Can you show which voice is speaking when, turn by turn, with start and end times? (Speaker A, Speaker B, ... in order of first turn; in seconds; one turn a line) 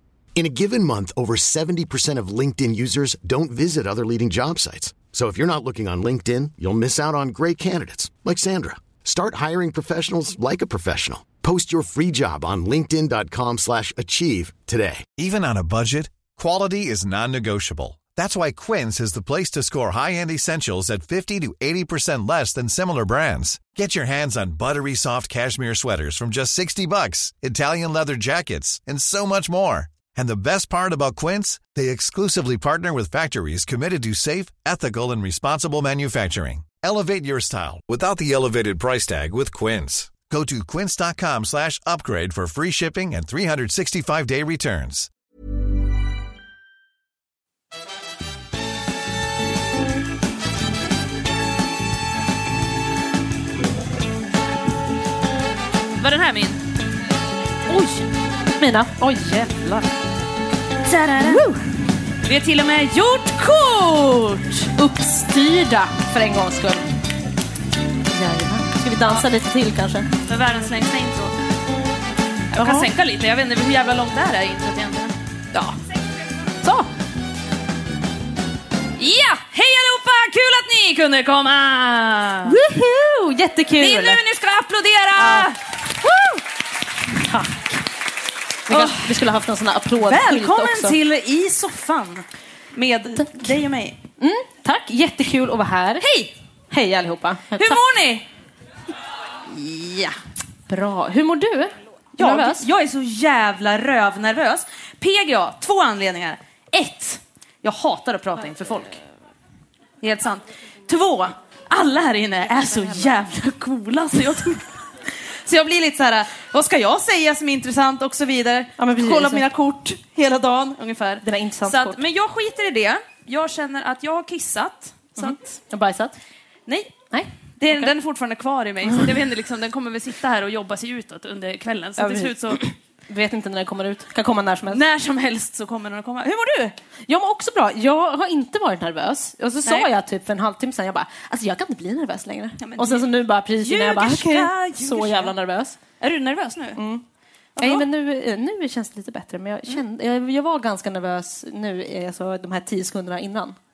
Speaker A: 0.3-15.1
Speaker B: 15.2-45.1
Speaker C: 56.0-56.6
Speaker C: 57.7-58.0
Speaker D: 58.5-59.9
Speaker C: 60.8-61.4
Speaker D: 61.2-61.6
Speaker C: 62.2-64.7
Speaker D: 64.8-66.9
Speaker D: 68.1-70.1
Speaker C: 70.2-71.3
Speaker D: 72.5-72.9
Speaker C: 72.5-75.8
Speaker D: 76.6-76.9
Speaker C: 79.0-82.6
Speaker D: 82.4-84.2
Speaker C: 83.8-85.6
Speaker D: 85.2-86.4
Speaker D: 87.0-87.8
Speaker D: 88.7-91.0
Speaker C: 88.7-89.2
Speaker C: 90.0-94.0
Speaker D: 93.2-93.5
Speaker D: 94.2-96.1
Speaker C: 96.0-96.3
Speaker D: 96.7-97.8
Speaker C: 97.5-98.3
Speaker C: 99.5-100.1
Speaker D: 100.7-102.7
Speaker C: 102.2-109.0
Speaker C: 110.0-114.7
Speaker C: 115.4-125.6
Speaker D: 118.8-119.4
Speaker D: 121.2-122.0
Speaker D: 125.2-126.2
Speaker C: 126.7-127.0
Speaker D: 127.1-127.9
Speaker C: 127.6-132.6
Speaker D: 128.8-129.2
Speaker D: 132.0-134.8
Speaker C: 134.7-136.7
Speaker D: 137.1-145.8
Speaker C: 142.6-145.3
Speaker C: 146.0-146.8
Speaker D: 146.8-147.0
Speaker C: 147.6-147.8
Speaker D: 147.6-153.6